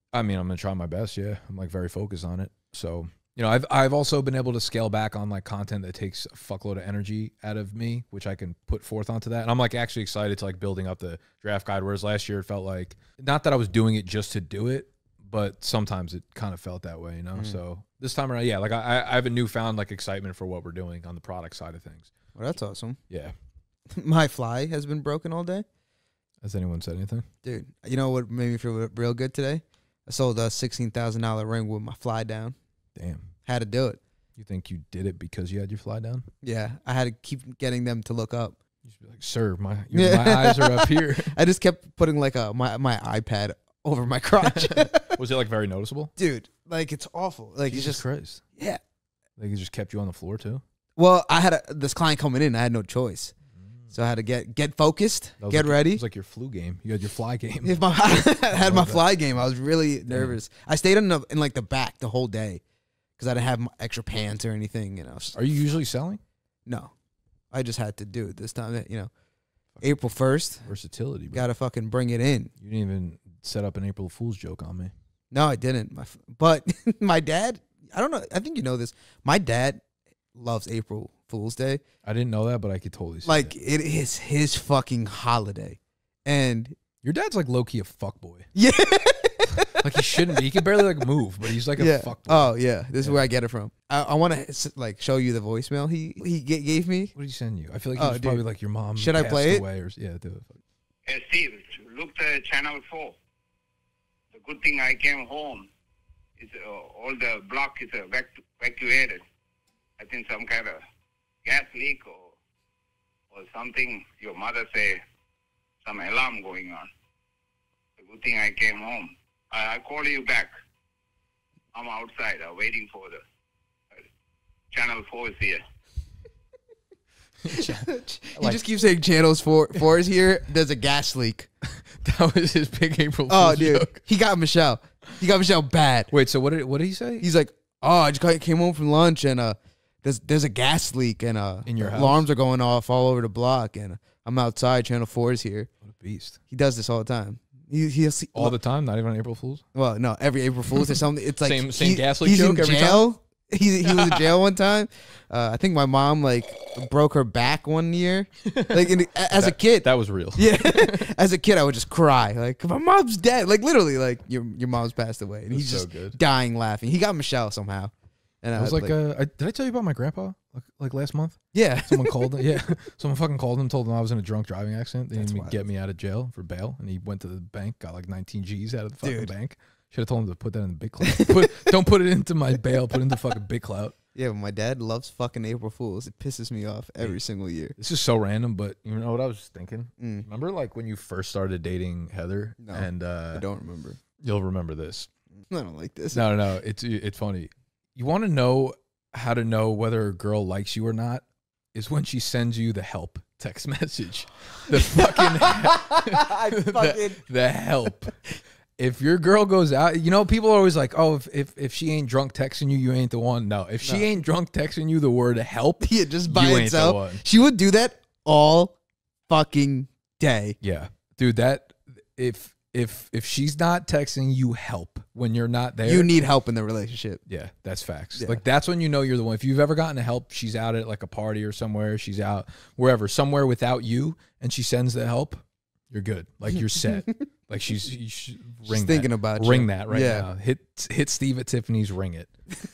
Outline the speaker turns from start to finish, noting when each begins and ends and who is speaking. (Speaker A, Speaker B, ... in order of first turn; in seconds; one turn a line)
Speaker A: 0.1-22.1
Speaker B: 22.4-23.0
Speaker B: 23.9-25.6
Speaker A: 26.4-27.3
Speaker B: 27.4-32.6
Speaker A: 33.0-33.3
Speaker B: 33.5-34.0
Speaker A: 34.4-36.3
Speaker B: 36.4-38.6
Speaker A: 38.9-41.4
Speaker B: 39.9-45.2
Speaker A: 44.5-46.1
Speaker B: 46.2-48.0
Speaker A: 47.7-48.4
Speaker A: 49.4-50.6
Speaker B: 51.0-53.3
Speaker B: 53.9-56.0
Speaker A: 55.4-59.0
Speaker B: 57.6-62.6
Speaker A: 60.1-60.4
Speaker B: 63.2-65.4
Speaker A: 65.3-66.2
Speaker B: 66.7-66.9
Speaker B: 67.5-69.1
Speaker B: 69.8-70.7
Speaker A: 70.7-71.5
Speaker B: 71.3-72.5
Speaker A: 72.6-74.9
Speaker B: 75.3-79.8
Speaker B: 80.3-81.8
Speaker A: 82.0-83.5
Speaker B: 83.2-86.8
Speaker A: 87.0-88.5
Speaker B: 88.5-90.4
Speaker A: 89.8-93.3
Speaker B: 91.8-97.1
Speaker A: 97.2-100.6
Speaker B: 98.0-98.4
Speaker B: 99.0-99.6
Speaker C: 101.1-103.2
Speaker C: 104.3-105.7
Speaker C: 106.4-109.2
Speaker C: 110.0-110.8
Speaker C: 111.5-112.4
Speaker C: 113.3-115.0
Speaker C: 115.8-116.9
Speaker C: 118.0-120.5
Speaker C: 121.7-123.2
Speaker C: 124.7-125.6
Speaker A: 127.4-128.6
Speaker B: 127.5-131.5
Speaker A: 131.6-134.0
Speaker B: 133.3-136.1
Speaker A: 136.1-137.3
Speaker B: 137.2-145.7
Speaker A: 141.7-142.3
Speaker A: 145.8-146.4
Speaker B: 146.5-148.6
Speaker A: 148.3-149.6
Speaker B: 149.7-168.9
Speaker A: 151.4-153.0
Speaker A: 153.8-154.3
Speaker A: 158.4-158.8
Speaker A: 159.3-161.1
Speaker A: 165.5-166.2
Speaker A: 168.6-184.0
Speaker B: 171.5-172.4
Speaker B: 175.1-175.6
Speaker B: 179.0-179.3
Speaker B: 181.1-181.7
Speaker B: 184.2-187.8
Speaker A: 187.8-193.4
Speaker B: 190.0-190.3
Speaker B: 192.6-194.0
Speaker A: 194.2-195.1
Speaker B: 195.5-196.2
Speaker A: 196.1-208.2
Speaker B: 204.9-207.2
Speaker A: 208.8-217.2
Speaker B: 215.8-218.8
Speaker B: 219.3-220.6
Speaker A: 220.6-226.1
Speaker B: 225.8-227.2
Speaker A: 227.3-242.3
Speaker B: 228.2-228.4
Speaker B: 238.7-240.3